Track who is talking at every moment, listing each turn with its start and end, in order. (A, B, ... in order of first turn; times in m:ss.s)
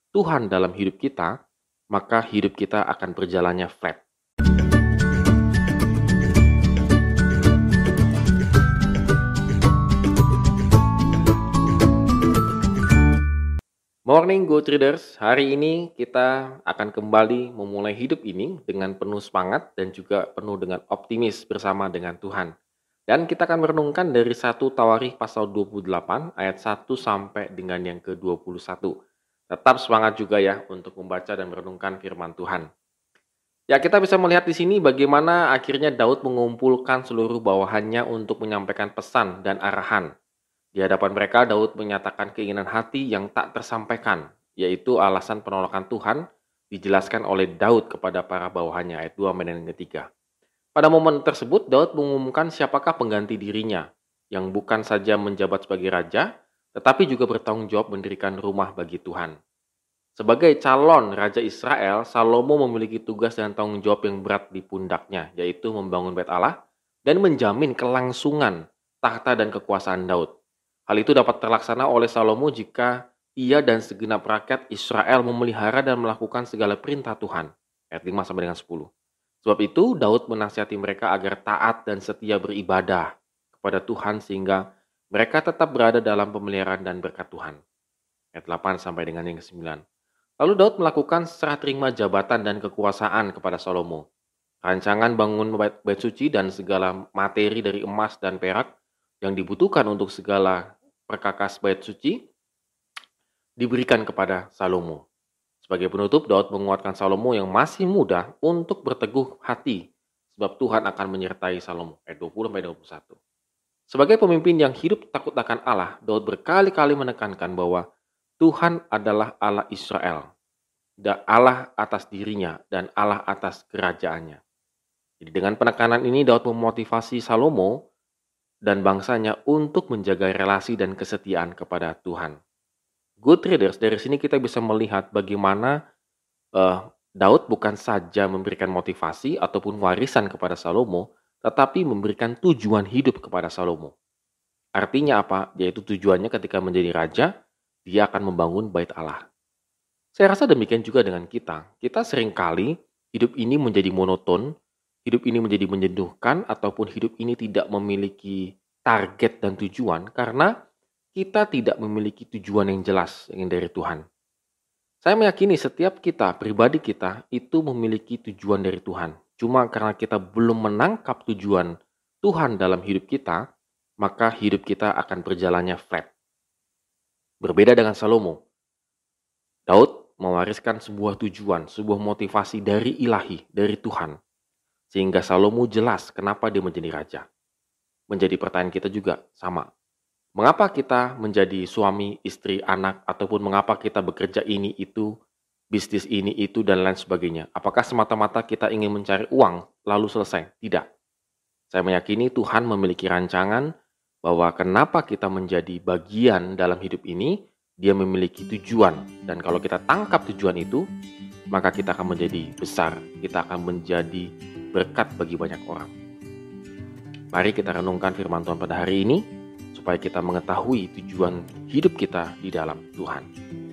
0:00.1-0:01.3 A
0:01.9-0:04.0 A
0:14.1-0:22.5 A
0:23.1-0:28.9 A
0:29.5-0:32.7 A
0:33.7-0:40.1 A
0:40.7-0:50.0 A
0:50.8-0:59.3 A
1:00.2-1:06.5 A
1:07.0-1:10.3 A
1:10.9-1:18.9 A
1:19.4-1:24.6 A
1:25.1-1:27.6 A
1:28.3-1:29.8 A
1:30.4-1:34.0 A
1:34.6-1:38.7 A
1:39.2-1:42.2 A
1:43.6-1:45.0 A
1:45.6-1:49.8 A
1:50.3-1:53.2 A
1:53.9-1:57.8 A
1:58.4-2:00.3 A
2:01.0-2:04.4 A
2:05.2-2:07.7 A
2:08.7-2:12.4 A
2:13.2-2:15.7 A
2:16.6-2:23.9 A
2:24.8-2:27.3 A
2:27.8-2:29.2 A
2:30.2-2:34.4 A
2:35.0-2:40.5 A
2:41.1-2:44.0 A
2:45.0-2:51.7 A
2:52.2-2:53.4 A
2:54.0-2:56.1 A
2:57.4-2:58.4 A
2:59.7-3:04.2 A
3:04.9-3:07.2 A
3:08.1-3:09.6 A
3:10.4-3:15.1 A
3:15.7-3:20.8 A
3:21.7-3:23.7 A
3:24.2-3:30.8 A
3:31.5-3:35.9 A
3:37.3-3:39.2 A
3:39.7-3:43.2 A